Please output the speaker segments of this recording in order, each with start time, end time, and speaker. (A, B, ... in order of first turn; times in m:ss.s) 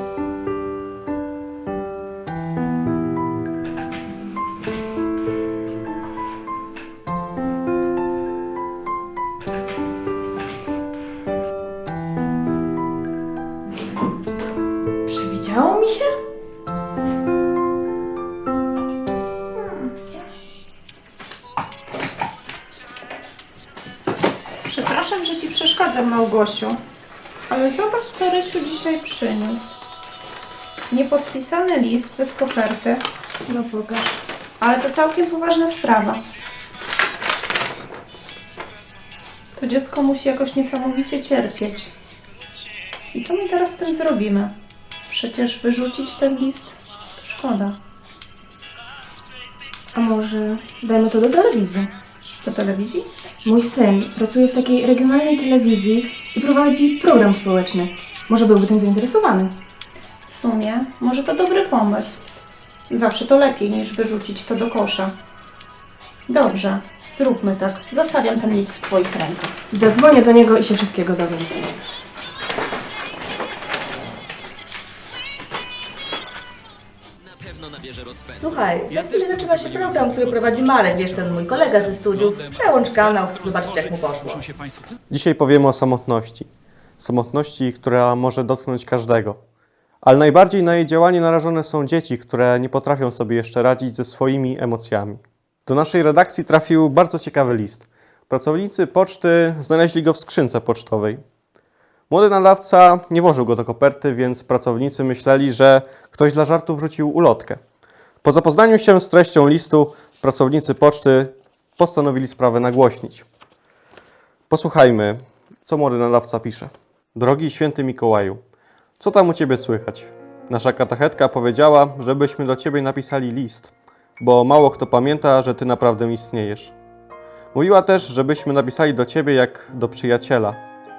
0:15.1-0:16.1 A
0:19.6-0:19.9 B
0:24.6-0:26.8 B
0:27.5-0:29.7 B
0:30.9-0:33.0 B
0:33.5-0:34.1 A
0:34.6-0:36.2 B
0:39.6-0:41.9 B
0:43.1-0:44.5 B
0:45.1-0:47.8 B
0:49.9-0:51.9 A
0:52.4-0:53.0 B
0:53.4-0:59.5 A
1:00.3-1:02.2 B
1:02.9-1:05.1 B
1:06.3-1:09.5 B
1:09.7-1:11.6 A
1:18.4-1:24.5 C
1:25.1-1:29.4 D
1:30.0-1:41.2 D
1:42.1-1:47.6 D
1:48.2-1:53.2 D
1:54.5-1:58.4 D
1:59.0-2:06.7 D
2:07.5-2:10.6 D